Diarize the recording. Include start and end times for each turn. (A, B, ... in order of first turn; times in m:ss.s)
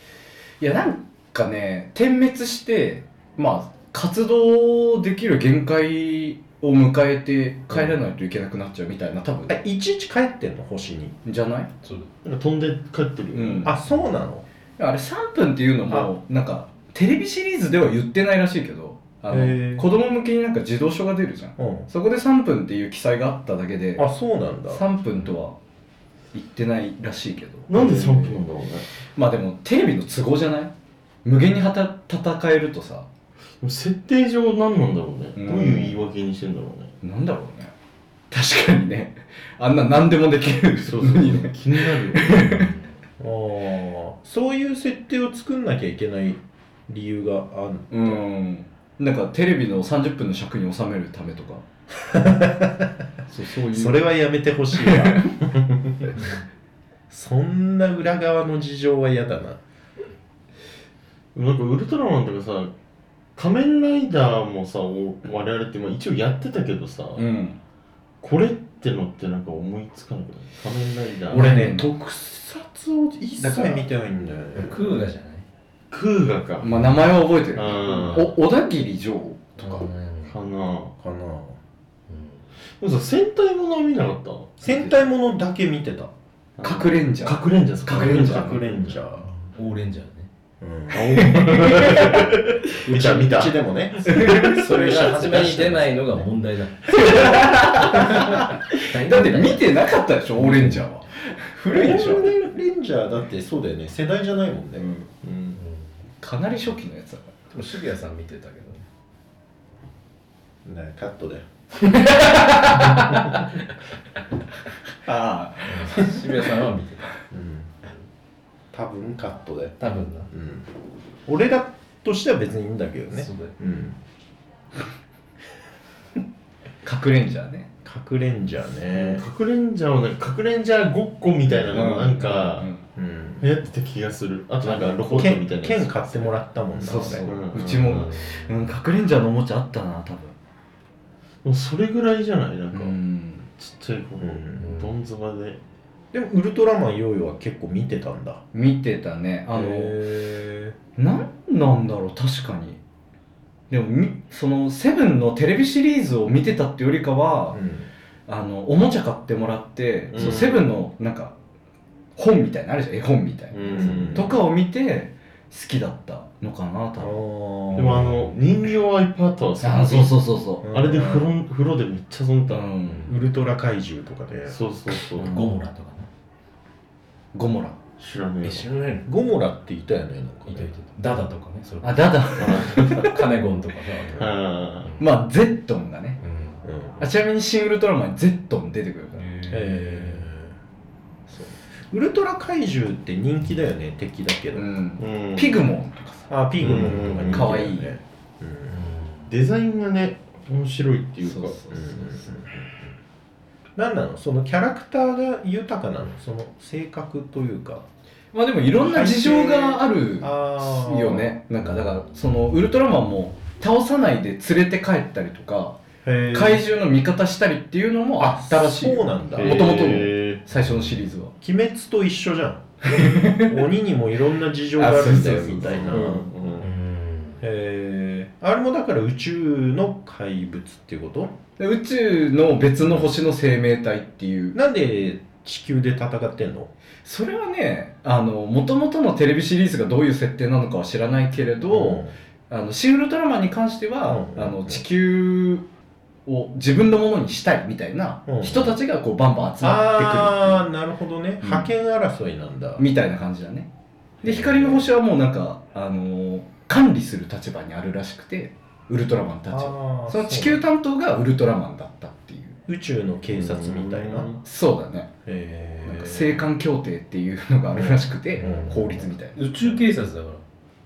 0:00.6-0:09.6 A
0:09.5-0:11.2 B
0:11.2-0:11.7 A
0:11.8-0:12.1 C
0:12.2-0:13.7 D
0:13.3-0:13.7 A
0:13.6-0:14.5 B
0:14.8-0:24.1 A
0:19.3-0:19.9 B
0:21.6-0:21.9 B
0:24.0-0:24.8 B
0:24.7-0:25.6 A
0:26.3-0:27.9 A
0:27.7-0:28.9 D
0:27.7-0:28.4 B
0:29.2-0:30.7 A
0:31.2-0:33.1 A
0:33.6-0:36.9 D
0:35.4-0:36.0 A
0:37.0-0:37.7 A
0:38.3-0:42.7 A
0:40.8-0:42.5 D
0:42.5-0:42.9 C
0:43.2-0:48.2 B
0:47.9-0:51.6 A
0:52.1-0:52.9 B
0:53.3-0:54.0 A
0:53.7-0:56.2 B
0:54.8-0:55.3 A
0:57.1-0:59.6 B
1:01.3-1:02.7 D
1:03.4-1:07.3 D
1:07.2-1:07.6 A
1:08.2-1:11.6 D
1:11.3-1:11.9 A
1:11.3-1:14.8 B
1:13.4-1:13.8 A
1:14.6-1:15.5 C
1:15.9-1:16.8 D
1:16.6-1:19.9 A
1:16.7-1:17.1 C
1:17.6-1:18.3 D
1:19.6-1:20.4 C
1:20.3-1:20.9 D
1:21.0-1:21.6 B
1:22.1-1:22.4 C
1:22.8-1:24.6 D
1:24.6-1:26.1 B
1:24.7-1:24.9 A
1:26.6-1:29.0 D
1:26.6-1:28.6 A
1:27.9-1:29.3 B
1:29.2-1:30.3 C
1:30.6-1:36.0 B
1:30.9-1:33.6 D
1:31.2-1:32.3 A
1:34.1-1:34.6 A
1:34.3-1:39.7 C
1:36.9-1:42.4 A
1:40.4-1:40.8 C
1:41.7-1:44.9 B
1:44.8-1:45.6 D
1:45.6-1:45.9 C
1:46.2-1:47.4 A
1:47.5-1:48.9 C
1:50.6-1:51.5 B
1:52.1-1:53.3 A
1:55.0-1:56.4 A
1:55.7-1:57.2 C
1:57.3-1:57.7 B
1:58.7-2:00.7 B
1:59.8-2:00.3 C
2:01.3-2:04.0 B
2:03.1-2:03.6 C
2:06.8-2:07.7 A
2:07.8-2:09.2 B
2:08.9-2:12.7 D
2:11.7-2:12.8 A
2:13.0-2:13.5 B
2:13.4-2:16.3 D
2:14.6-2:17.4 B
2:16.8-2:20.3 A
2:17.2-2:18.1 D
2:17.8-2:18.6 C
2:21.4-2:23.0 D
2:22.7-2:23.5 A
2:23.6-2:25.6 D
2:24.2-2:24.7 B
2:24.6-2:24.9 C
2:26.1-2:28.4 B
2:28.5-2:30.1 A
2:29.5-2:30.8 B
2:31.0-2:32.8 A
2:33.7-2:37.6 A
2:37.5-2:37.9 B
2:38.3-2:41.3 A
2:40.1-2:40.7 D
2:42.2-2:47.2 A
2:43.5-2:44.4 D
2:43.7-2:44.4 B
2:47.0-2:48.2 B
2:47.8-2:52.7 D
2:49.6-2:50.7 A
2:50.6-2:51.3 B
2:52.5-2:53.1 A
2:52.9-2:53.1 C
2:53.1-2:54.6 B
2:54.5-2:55.4 D
2:55.2-2:56.1 C
2:55.2-2:55.5 A
2:57.3-2:57.8 A
2:58.0-2:58.7 D
2:58.4-2:59.1 C
2:59.0-3:00.7 B
3:00.5-3:05.0 C
3:01.8-3:03.1 A
3:02.4-3:03.2 D
3:04.2-3:05.0 D
3:05.0-3:06.2 A
3:06.2-3:06.6 C
3:06.6-3:07.0 B
3:07.0-3:09.2 A
3:09.1-3:10.3 C
3:09.5-3:10.5 B
3:11.3-3:11.5 A
3:11.9-3:14.6 B
3:14.5-3:17.9 A
3:15.0-3:15.6 D
3:16.3-3:18.8 B
3:16.6-3:17.5 D
3:18.7-3:19.3 C
3:19.3-3:21.6 D
3:21.2-3:22.3 A
3:21.7-3:22.9 B
3:23.8-3:27.8 B
3:28.3-3:41.3 A
3:28.8-3:31.3 B
3:36.0-3:36.6 B
3:38.2-3:40.0 B
3:39.4-3:40.4 D
3:40.6-3:41.0 C
3:41.4-3:46.3 B
3:42.8-3:43.6 A
3:44.8-3:46.2 A
3:45.6-3:46.7 D
3:46.6-3:47.4 C
3:47.4-3:51.4 B
3:51.6-3:54.6 A
3:52.8-3:53.1 B
3:54.5-3:56.7 B
3:57.0-4:05.6 A
4:01.6-4:02.1 B
4:04.1-4:04.8 B
4:06.3-4:10.6 A
4:08.3-4:08.8 B
4:09.6-4:12.8 B
4:11.4-4:11.7 A
4:12.8-4:13.7 A
4:14.2-4:22.6 A
4:14.2-4:14.9 B
4:19.5-4:20.6 B
4:22.7-4:24.4 B
4:23.3-4:24.4 D
4:24.4-4:25.1 A
4:25.3-4:26.5 B
4:25.8-4:29.4 A
4:27.7-4:29.8 B
4:28.4-4:28.7 C
4:29.4-4:30.4 C